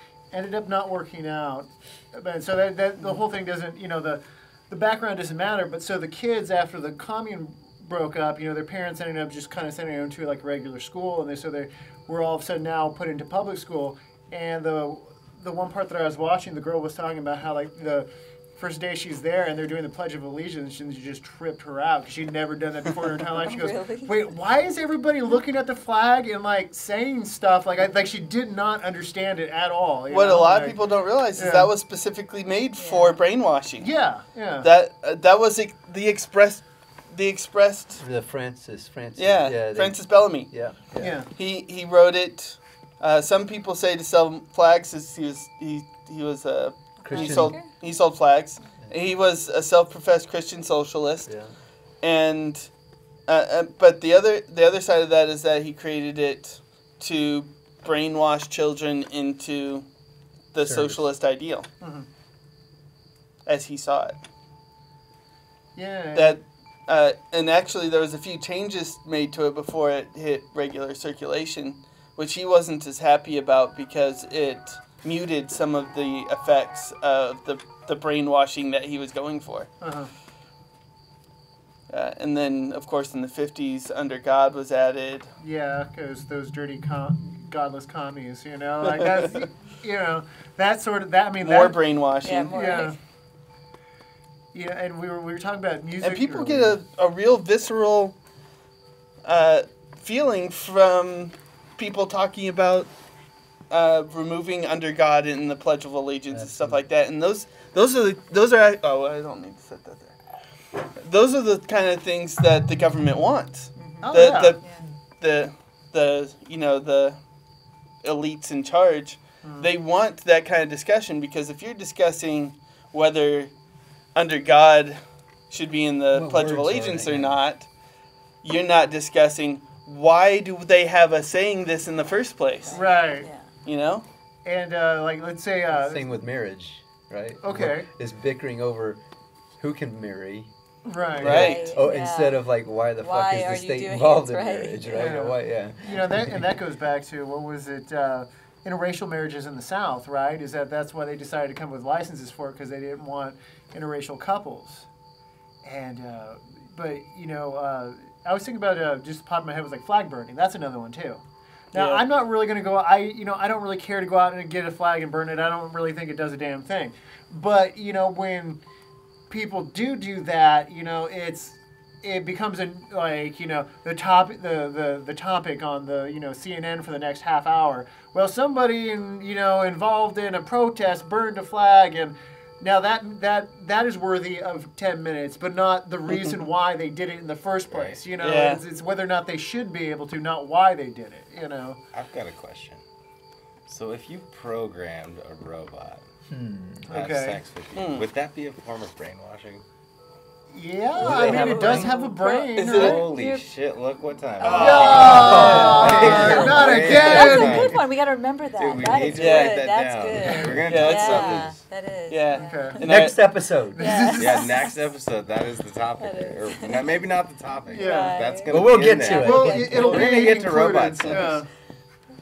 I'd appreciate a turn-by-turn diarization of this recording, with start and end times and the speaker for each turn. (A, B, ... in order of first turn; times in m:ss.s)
0:00.3-0:30.8 A
0:23.4-0:24.2 B
0:30.1-0:33.9 C
0:31.4-0:31.7 A
0:32.8-0:33.2 B
0:33.8-0:34.7 A
0:34.6-0:38.0 C
0:38.0-0:41.2 D
0:39.2-0:40.6 C
0:41.0-0:41.3 A
0:41.4-0:51.3 C
0:47.0-0:47.6 D
0:47.0-0:47.7 B
0:51.2-0:51.5 D
0:52.0-0:52.7 C
0:53.3-0:59.9 C
1:00.5-1:01.7 C
1:00.6-1:01.0 D
1:01.8-1:02.1 A
1:03.4-1:04.2 C
1:05.8-1:06.4 A
1:06.1-1:19.7 C
1:19.8-1:20.1 A
1:21.9-1:25.3 C
1:25.4-1:33.0 A
1:31.4-1:32.8 C
1:32.2-1:33.0 B
1:34.5-1:36.8 A
1:36.0-1:38.1 C
1:39.2-1:42.9 C
1:43.7-1:57.2 C
1:46.3-1:46.8 D
1:53.8-1:54.8 B
1:54.0-1:54.6 A
1:58.0-2:03.5 C
1:59.4-1:59.7 A
2:04.1-2:07.7 C
2:06.1-2:07.4 D
2:08.4-2:12.9 C
2:12.6-2:13.5 B
2:12.7-2:13.3 A
2:13.6-2:14.0 C
2:14.4-2:16.1 A
2:15.7-2:19.0 D
2:17.4-2:17.9 A
2:19.6-2:20.5 D
2:20.8-2:21.7 A
2:21.2-2:26.6 D
2:21.2-2:21.8 C
2:21.2-2:22.4 B
2:23.0-2:25.2 B
2:24.9-2:34.9 A
2:35.6-2:48.6 A
2:41.7-2:42.0 C
2:49.3-3:11.8 A
3:07.7-3:08.0 E
3:08.2-3:08.6 C
3:11.9-3:12.8 E
3:13.6-3:16.1 E
3:16.3-3:16.9 D
3:16.9-3:17.4 A
3:16.9-3:19.6 E
3:17.7-3:18.0 C
3:20.5-3:23.0 A
3:20.9-3:23.5 B
3:21.0-3:21.9 D
3:21.1-3:21.8 E
3:22.6-3:23.0 C
3:22.7-3:27.8 E
3:24.4-3:25.7 C
3:24.4-3:27.8 A
3:25.1-3:26.6 D
3:25.4-3:32.9 B
3:28.6-3:31.6 E
3:29.1-3:29.6 C
3:30.2-3:30.9 D
3:30.6-3:31.5 C
3:32.1-3:33.2 C
3:32.3-3:32.8 A
3:32.8-3:33.9 D
3:33.7-3:34.7 A
3:33.8-3:34.7 B
3:34.1-3:41.4 E
3:36.0-3:36.9 B
3:37.7-3:38.3 A
3:37.7-3:39.6 B
3:38.5-3:40.1 D
3:39.1-3:41.5 A